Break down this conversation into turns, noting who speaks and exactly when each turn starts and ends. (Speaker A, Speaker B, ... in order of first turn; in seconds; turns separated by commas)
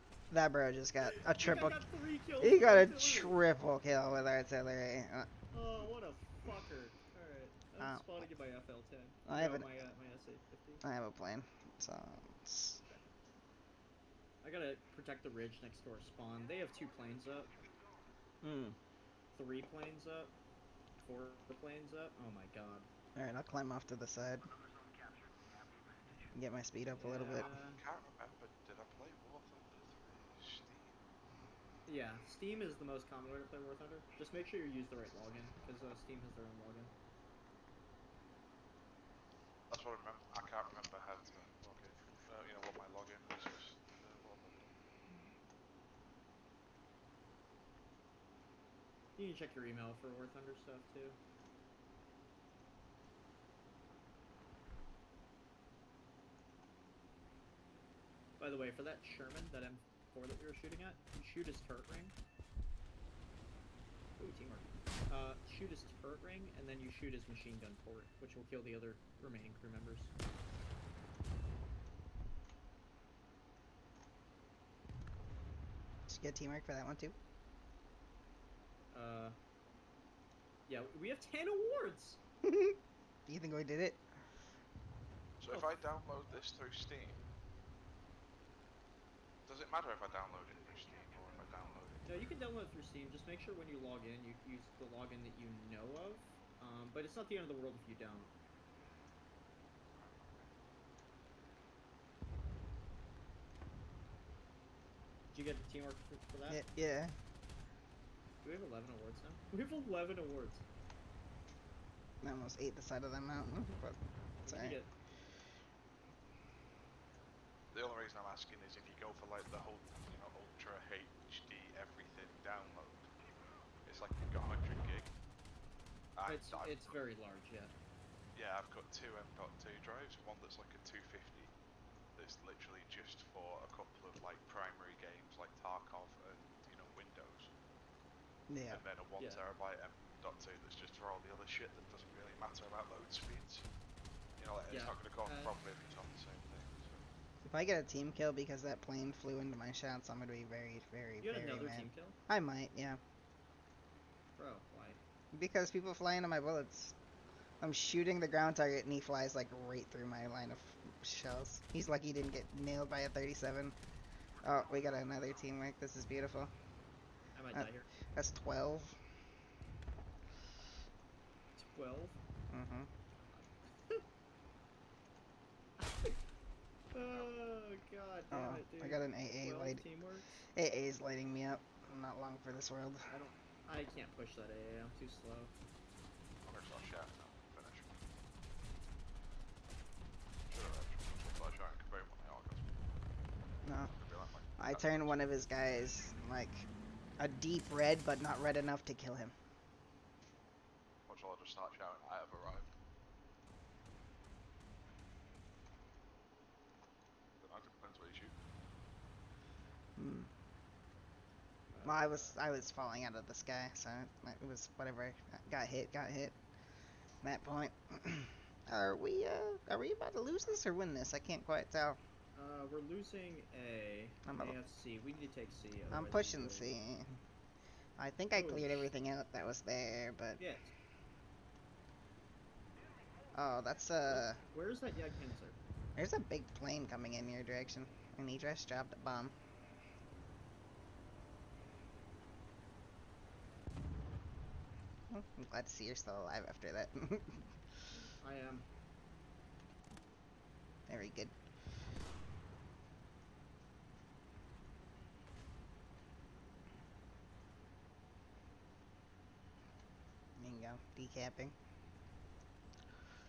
Speaker A: 0.3-1.9, Speaker B: 1.0-3.4, Speaker A: 2.4-5.3, Speaker B: 5.5-10.8, Speaker A: 7.8-8.2, Speaker A: 9.3-9.7, Speaker A: 10.8-12.8, Speaker B: 14.4-17.5, Speaker A: 18.4-18.8, Speaker B: 19.3-20.3, Speaker B: 21.0-22.9, Speaker A: 23.2-24.5, Speaker A: 26.3-27.5, Speaker B: 26.9-27.8, Speaker C: 27.3-31.0, Speaker B: 31.9-36.9, Speaker C: 39.7-44.7, Speaker B: 49.2-51.2, Speaker B: 58.4-62.1, Speaker B: 64.2-70.1, Speaker A: 76.1-77.2, Speaker B: 78.9-79.4, Speaker B: 80.7-82.2, Speaker A: 82.4-84.0, Speaker C: 85.4-87.2, Speaker B: 85.5-85.8, Speaker C: 89.5-92.3, Speaker B: 92.1-98.3, Speaker B: 105.3-106.6, Speaker A: 106.5-107.2, Speaker B: 108.4-110.6, Speaker A: 112.2-114.8, Speaker B: 114.4-114.9, Speaker C: 117.7-123.1, Speaker C: 123.8-125.1, Speaker C: 126.2-127.0, Speaker B: 126.2-127.7, Speaker C: 128.3-131.5, Speaker C: 132.2-137.5, Speaker A: 138.5-138.8, Speaker C: 138.7-143.7, Speaker C: 144.4-147.1, Speaker B: 144.7-145.6, Speaker A: 147.4-153.0, Speaker B: 151.2-152.2, Speaker B: 154.4-155.0, Speaker A: 155.3-156.9, Speaker A: 157.6-163.8, Speaker A: 164.4-166.5, Speaker B: 167.3-167.9, Speaker A: 167.6-169.0, Speaker B: 171.6-172.2, Speaker A: 172.5-172.9, Speaker B: 175.8-176.2, Speaker B: 176.9-180.3, Speaker C: 177.0-177.3, Speaker A: 178.3-179.8, Speaker A: 180.6-183.1, Speaker B: 183.1-185.5, Speaker C: 186.4-188.0, Speaker C: 190.5-192.7, Speaker A: 193.7-193.9, Speaker C: 193.9-195.3, Speaker A: 194.6-196.7, Speaker A: 197.2-199.3, Speaker C: 201.1-202.7, Speaker C: 207.4-208.3, Speaker A: 210.0-210.3, Speaker B: 211.7-212.4, Speaker A: 211.8-216.4, Speaker A: 217.2-222.0, Speaker B: 222.3-226.8, Speaker A: 224.2-224.6, Speaker A: 225.9-227.2, Speaker A: 228.0-230.4, Speaker B: 228.3-228.9, Speaker B: 230.4-230.7, Speaker A: 233.3-234.4, Speaker B: 234.1-235.6, Speaker A: 236.0-239.3, Speaker A: 245.1-247.4, Speaker B: 248.2-248.7, Speaker A: 250.9-251.3, Speaker A: 260.4-261.6